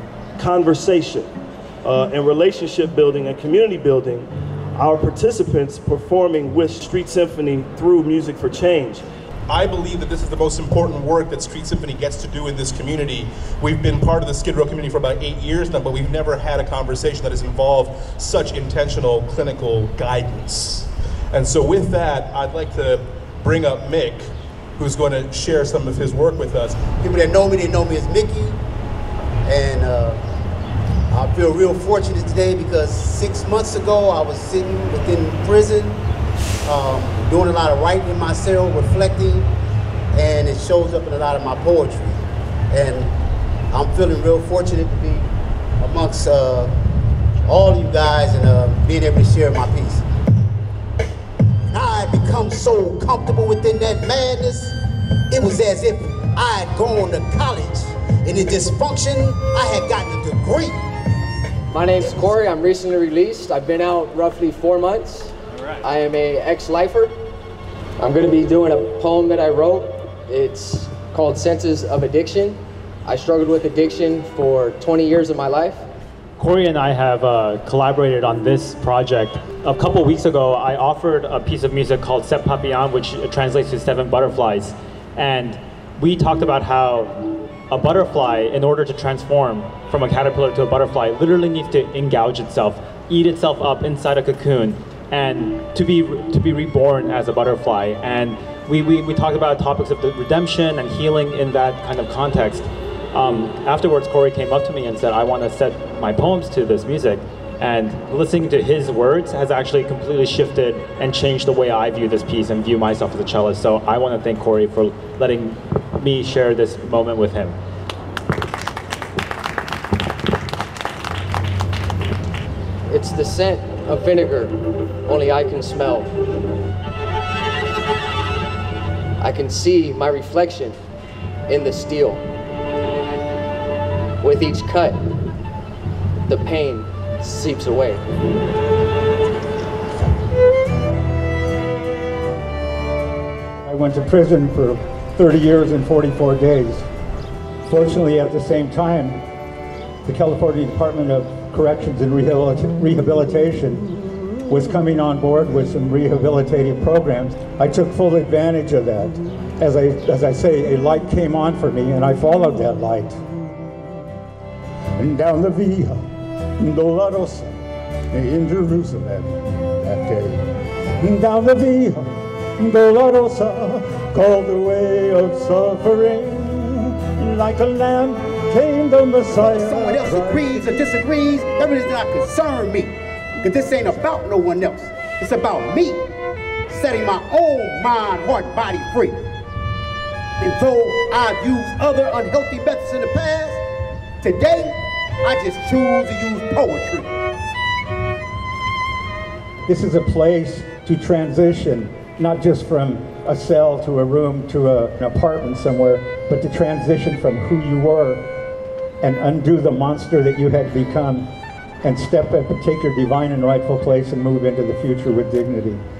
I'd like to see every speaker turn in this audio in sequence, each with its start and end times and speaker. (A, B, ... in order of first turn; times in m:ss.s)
0:00.4-0:09.1 A
0:09.5-0:24.3 B
0:24.8-0:26.9 B
0:27.0-0:28.6 C
0:29.4-0:30.2 C
0:31.1-0:36.0 C
0:36.6-0:39.5 C
0:40.1-0:43.1 C
0:43.7-0:45.3 C
0:45.8-0:46.7 C
0:47.4-0:50.0 C
0:51.7-0:54.7 C
0:55.3-1:00.8 C
1:01.7-1:07.1 D
1:08.0-1:15.9 D
1:16.4-1:57.6 E
2:02.9-2:06.2 D
2:09.2-2:10.8 D
2:11.5-2:12.2 D
2:14.2-2:15.0 D
2:16.3-2:18.0 D
2:23.6-2:26.9 F
2:27.7-2:29.2 F
2:30.0-2:33.8 F
2:34.5-2:43.8 F
2:45.0-2:46.1 F
2:46.6-2:47.6 F
2:48.1-3:00.7 F
2:59.4-3:06.1 C
3:06.7-3:09.2 C
3:10.4-3:13.6 C
3:14.2-3:17.1 C
3:19.7-3:28.3 F
3:29.0-3:31.3 F
3:31.8-3:35.8 F